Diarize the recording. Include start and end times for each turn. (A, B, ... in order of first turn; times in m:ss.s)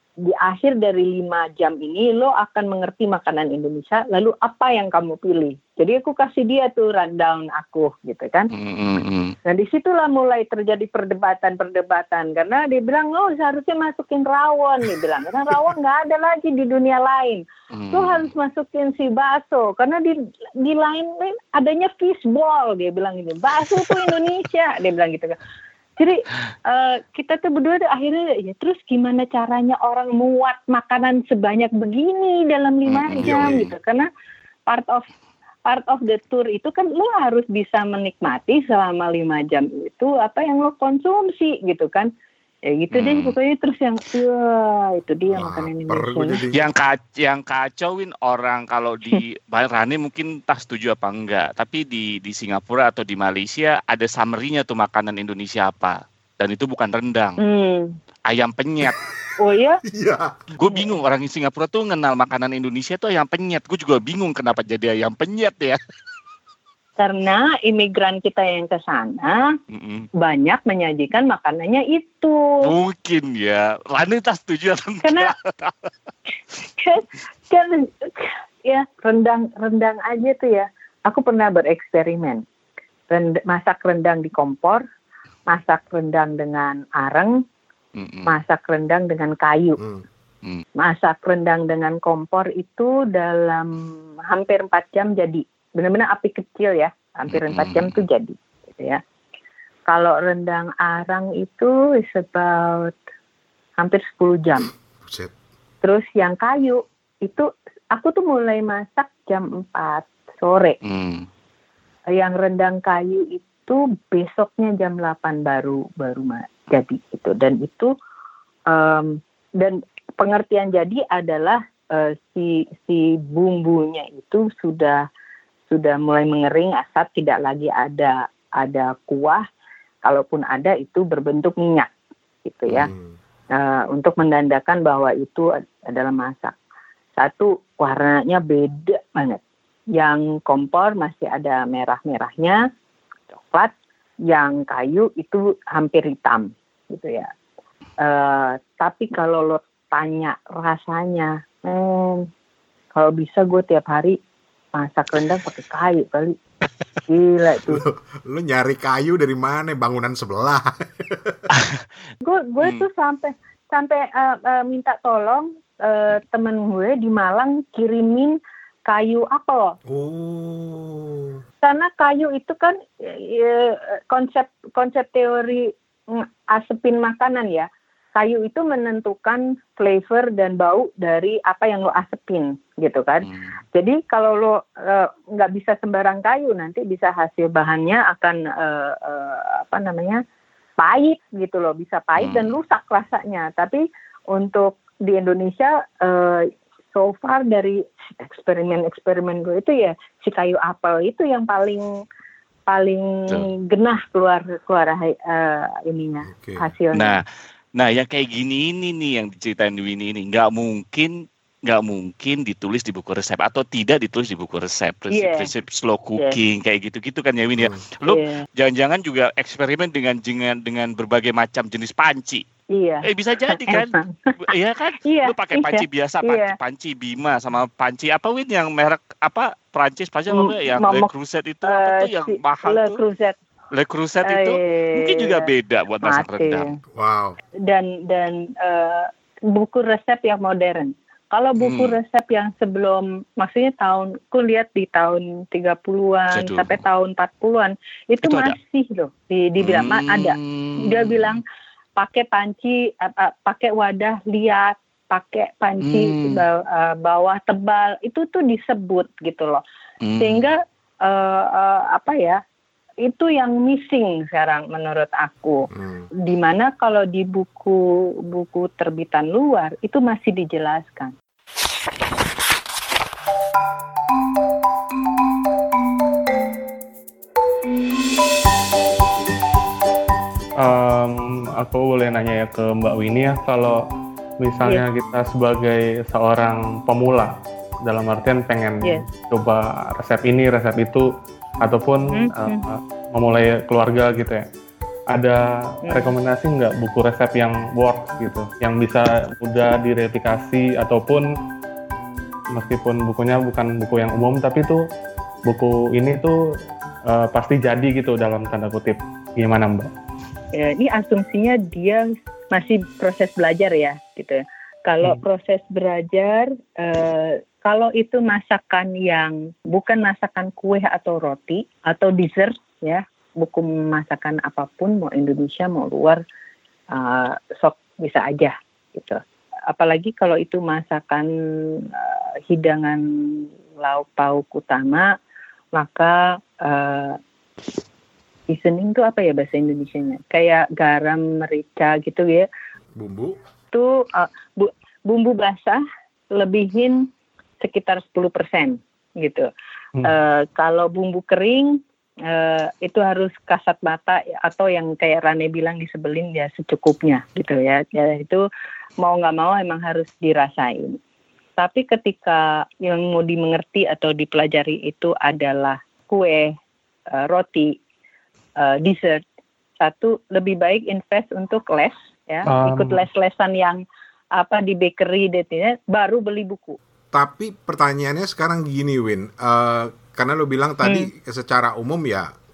0:00.2-0:08.5 A
0:08.5-0:09.4 B
0:09.4-0:25.4 A
0:17.7-0:18.3 B
0:26.0-0:34.1 A
0:32.9-0:33.4 B
0:33.2-0:33.7 C
0:34.7-0:35.0 A
0:35.6-0:42.1 A
0:42.6-0:46.4 A
0:42.9-0:43.3 B
0:45.3-0:46.7 C
0:46.5-0:57.4 B
0:57.4-0:57.9 A
0:58.3-0:59.0 B
0:59.4-0:59.8 A
0:59.8-1:00.4 C
1:00.5-1:05.8 B
1:00.7-1:00.9 A
1:07.0-1:09.5 A
1:09.7-1:10.1 B
1:10.2-1:12.7 A
1:12.6-1:15.9 B
1:15.0-1:15.3 A
1:16.8-1:22.4 A
1:23.1-1:24.8 A
1:25.5-1:27.4 A
1:28.0-1:28.3 B
1:28.2-1:29.8 A
1:30.8-1:39.0 A
1:37.3-1:38.0 B
1:39.9-1:43.0 A
1:43.8-1:44.7 A
1:45.0-1:45.3 C
1:45.8-1:50.8 A
1:50.8-1:51.2 B
1:52.1-1:57.9 A
1:58.7-2:05.0 A
2:05.7-2:09.4 A
2:10.0-2:11.9 A
2:12.4-2:12.9 A
2:12.7-2:13.1 C
2:13.5-2:16.5 A
2:17.2-2:19.4 A
2:20.0-2:22.6 A
2:23.3-2:23.7 A
2:24.3-2:27.3 A
2:28.0-2:32.3 A
2:32.9-2:34.2 A
2:34.7-2:36.4 A
2:37.1-2:37.8 A
2:37.6-2:41.4 C
2:41.5-2:41.8 B
2:42.2-2:49.8 A
2:42.6-2:42.8 B
2:49.9-2:51.4 C
2:51.6-3:10.2 A
3:03.2-3:03.5 B
3:10.8-3:13.8 A
3:12.2-3:12.5 B
3:14.3-3:21.9 A
3:22.7-3:27.2 A
3:26.3-3:26.6 C
3:26.9-3:27.2 B
3:27.8-3:42.4 B
3:35.1-3:35.5 A
3:38.0-3:38.4 A
3:42.7-3:46.6 A
3:43.0-3:53.0 B
3:50.3-3:51.1 A
3:51.6-3:53.3 A
3:53.7-3:56.7 B
3:54.2-3:55.5 A
3:56.0-3:56.7 A
3:56.9-3:57.3 C
3:57.6-4:11.4 A
4:01.6-4:02.0 B
4:06.3-4:06.8 B
4:08.2-4:08.6 B
4:09.6-4:11.4 B
4:12.0-4:19.6 A
4:15.8-4:16.4 B
4:20.0-4:20.4 B
4:20.2-4:22.4 A
4:23.0-4:25.7 A
4:25.8-4:26.0 C
4:26.2-4:31.1 A
4:40.6-4:43.8 D
4:44.4-4:54.4 D
4:52.1-4:52.7 A
4:55.1-5:01.3 D
4:55.8-4:56.1 A
5:02.5-5:04.8 D
5:05.4-5:06.4 D
5:07.1-5:09.9 D
5:10.5-5:26.2 A
5:26.9-5:35.1 A
5:35.7-5:37.2 A
5:38.5-5:42.5 A
5:43.0-5:43.4 C
5:43.7-5:45.8 A
5:46.3-5:47.1 A
5:47.6-5:49.5 A
5:50.0-5:58.4 A
5:59.0-6:01.0 A
6:01.6-6:06.5 A
6:07.1-6:07.8 A
6:08.6-6:09.2 A
6:09.8-6:13.8 A
6:12.4-6:13.0 D
6:14.4-6:16.8 A
6:17.1-6:22.3 C